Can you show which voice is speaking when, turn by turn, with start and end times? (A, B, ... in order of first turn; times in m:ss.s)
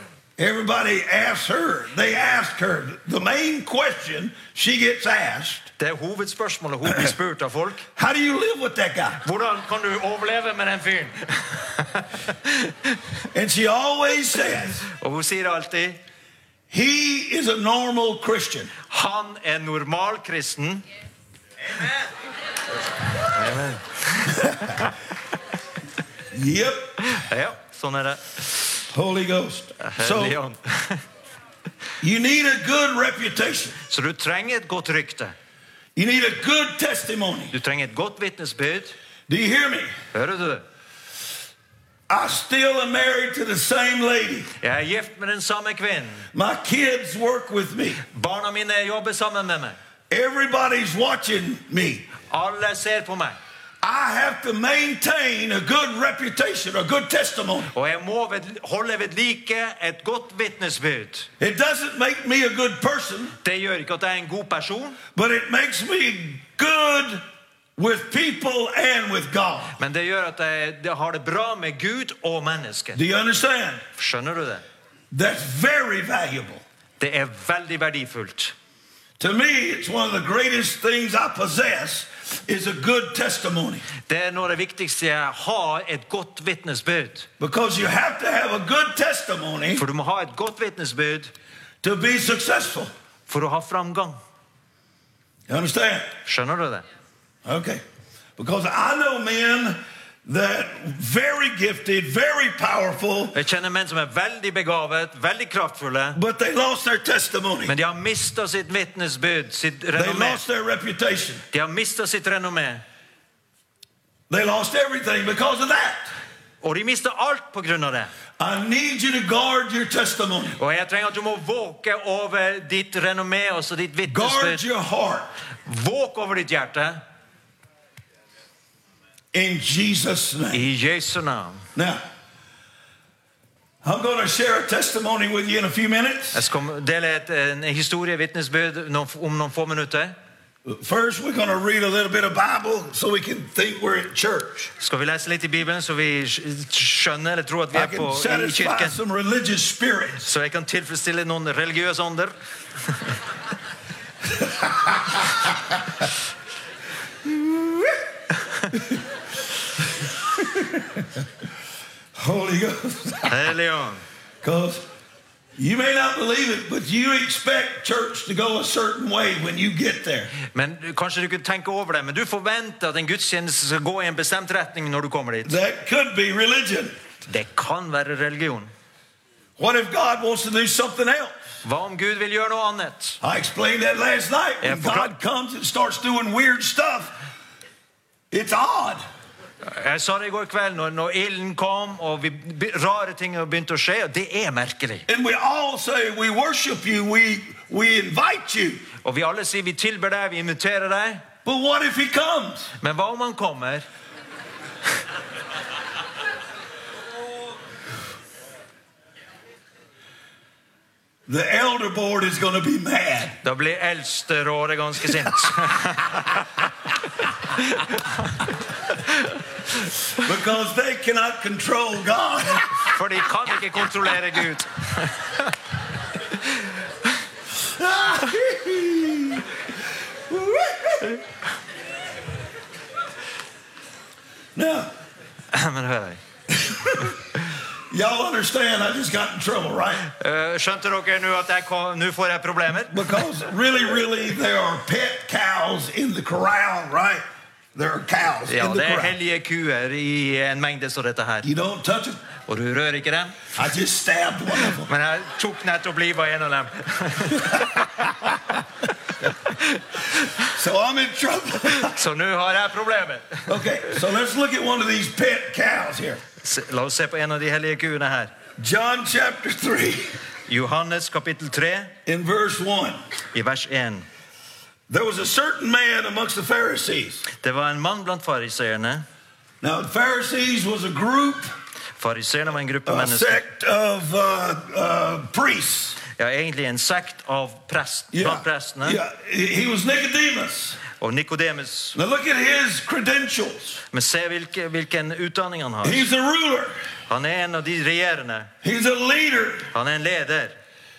0:00.4-0:05.7 A
0:05.8-0:07.9 B
0:08.0-0:09.2 A
0:09.2-0:12.9 B
0:13.3-0:14.8 A
0:14.9-0:16.0 B
0:16.7-0:18.7 A
0:18.9-0:20.8 B
0:23.2-0:24.9 B
0:24.3-0:24.8 A
0:26.3-0:27.0 A
0:27.0-0:28.6 B
0:28.9-0:30.4 A
0:29.8-0:31.0 B
0:32.0-0:33.8 A
0:33.9-0:35.4 B
0:36.0-0:37.5 A
0:37.5-0:39.0 B
0:39.3-0:39.9 A
0:40.1-0:40.6 B
0:42.1-0:44.5 A
0:44.6-0:46.3 B
0:46.3-0:48.0 A
0:48.0-0:49.8 B
0:50.1-0:52.1 A
0:52.3-0:53.4 B
0:53.8-0:57.7 A
0:57.7-1:01.3 B
1:01.4-1:03.4 A
1:03.4-1:05.0 B
1:05.2-1:07.2 A
1:07.8-1:09.8 A
1:09.8-1:13.0 B
1:13.0-1:13.8 A
1:14.0-1:14.6 B
1:15.1-1:16.6 A
1:17.0-1:18.5 B
1:19.2-1:23.9 A
1:24.1-1:27.3 B
1:27.4-1:29.8 A
1:29.8-1:31.3 B
1:31.8-1:32.9 A
1:33.3-1:34.2 B
1:35.5-1:36.1 A
1:36.2-1:36.8 B
1:37.4-1:37.8 A
1:38.4-1:43.4 A
1:43.3-1:46.2 B
1:46.2-1:47.7 A
1:47.7-1:50.4 B
1:50.0-1:51.4 A
1:51.5-1:52.8 B
1:54.3-1:56.1 A
1:56.6-1:58.1 B
1:58.4-2:00.6 A
2:00.6-2:04.6 B
2:04.0-2:05.3 A
2:05.7-2:07.0 B
2:09.3-2:10.7 A
2:10.5-2:11.6 B
2:11.8-2:12.0 A
2:13.8-2:16.4 A
2:16.3-2:20.2 B
2:20.7-2:24.7 A
2:24.8-2:29.0 B
2:27.7-2:30.3 A
2:30.2-2:32.3 B
2:34.2-2:35.8 A
2:37.2-2:38.0 A
2:38.7-2:39.0 A
2:40.3-2:41.1 A
2:42.2-2:43.4 A
2:43.3-2:44.0 B
2:44.4-2:44.8 A
2:45.6-2:50.3 A
2:50.4-2:55.6 B
2:55.4-2:56.9 A
2:57.3-2:58.7 B
2:59.6-3:01.3 A
3:01.6-3:03.2 B
3:03.2-3:07.1 A
3:04.6-3:05.1 B
3:08.3-3:09.0 A
3:09.6-3:15.1 B
3:15.1-3:18.9 A
3:19.0-3:21.3 B
3:21.4-3:22.7 A
3:22.8-3:23.9 B
3:31.3-3:33.4 A
3:33.4-3:36.7 B
3:37.5-3:39.4 B
3:40.2-3:42.7 A
3:42.8-3:45.6 B
3:47.6-3:49.6 A
3:50.3-3:51.2 A
3:54.6-3:54.9 A
3:55.5-3:56.2 B
3:56.5-3:57.2 A
3:57.9-4:00.1 A
4:00.0-4:03.3 B
4:02.9-4:07.2 A
4:07.8-4:09.2 A
4:08.5-4:11.5 B
4:11.4-4:12.2 A
4:12.5-4:13.5 B
4:13.5-4:14.9 A
4:14.5-4:18.6 B
4:19.5-4:20.5 B
4:20.4-4:22.0 A
4:21.8-4:23.6 B
4:23.5-4:26.2 A
4:26.4-4:28.3 B
4:28.6-4:30.1 A
4:30.5-4:31.9 B
4:32.1-4:33.0 A
4:33.3-4:34.1 B
4:34.9-4:37.2 A
4:37.3-4:39.0 B
4:39.6-4:41.5 A
4:42.0-4:43.4 B
4:42.9-4:46.0 A
4:46.1-4:49.0 B
4:48.1-4:50.8 A
4:51.0-4:52.0 B
4:52.0-4:53.8 A
4:53.9-4:56.1 B
4:55.8-4:56.7 A
4:57.1-4:58.5 B
4:58.6-4:59.7 A
4:59.7-5:00.6 B